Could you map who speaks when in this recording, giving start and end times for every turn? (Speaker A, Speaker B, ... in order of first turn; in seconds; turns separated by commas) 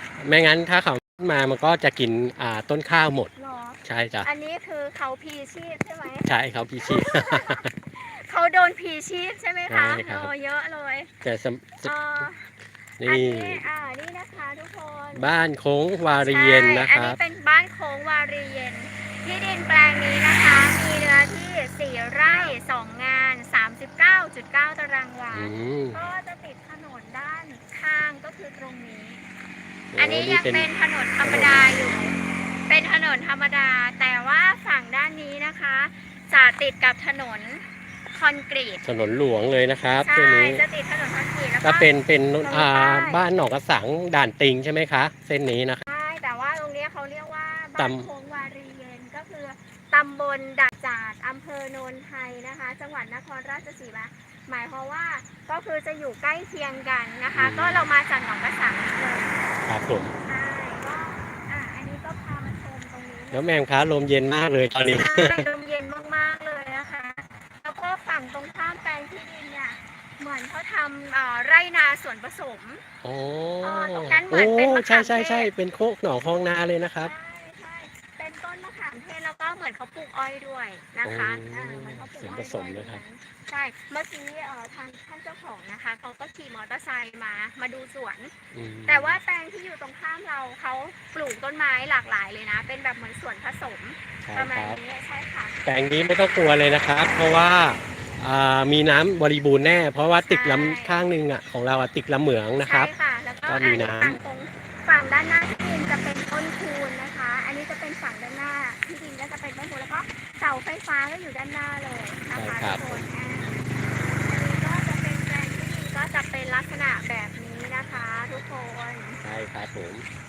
Speaker A: 0.2-3.3, Speaker B: 3.4-6.3, Speaker A: 3.8-4.3, Speaker A: 6.2-7.7, Speaker B: 6.8-11.1, Speaker A: 9.7-10.3, Speaker A: 11.2-11.9, Speaker B: 11.8-12.5, Speaker A: 13.0-13.6, Speaker B: 13.1-15.2, Speaker A: 15.1-17.2, Speaker B: 16.2-29.2, Speaker A: 25.3-26.0, Speaker A: 29.9-30.7, Speaker B: 30.0-38.8, Speaker A: 31.2-31.6, Speaker A: 38.8-40.6, Speaker B: 40.0-41.9, Speaker A: 41.6-45.8, Speaker B: 42.4-43.2, Speaker B: 45.9-59.4, Speaker A: 47.8-48.1, Speaker A: 57.3-57.9, Speaker A: 59.6-60.1, Speaker B: 60.2-63.5, Speaker A: 63.3-65.5, Speaker B: 64.9-72.8, Speaker A: 73.0-77.1, Speaker B: 73.6-75.5, Speaker B: 77.0-88.3, Speaker A: 81.0-83.0, Speaker A: 88.5-89.2, Speaker B: 88.9-95.6, Speaker A: 94.2-94.8, Speaker A: 95.6-102.9, Speaker B: 100.3-101.0, Speaker B: 102.6-119.2, Speaker A: 103.5-104.2, Speaker A: 112.3-113.1, Speaker A: 119.2-120.0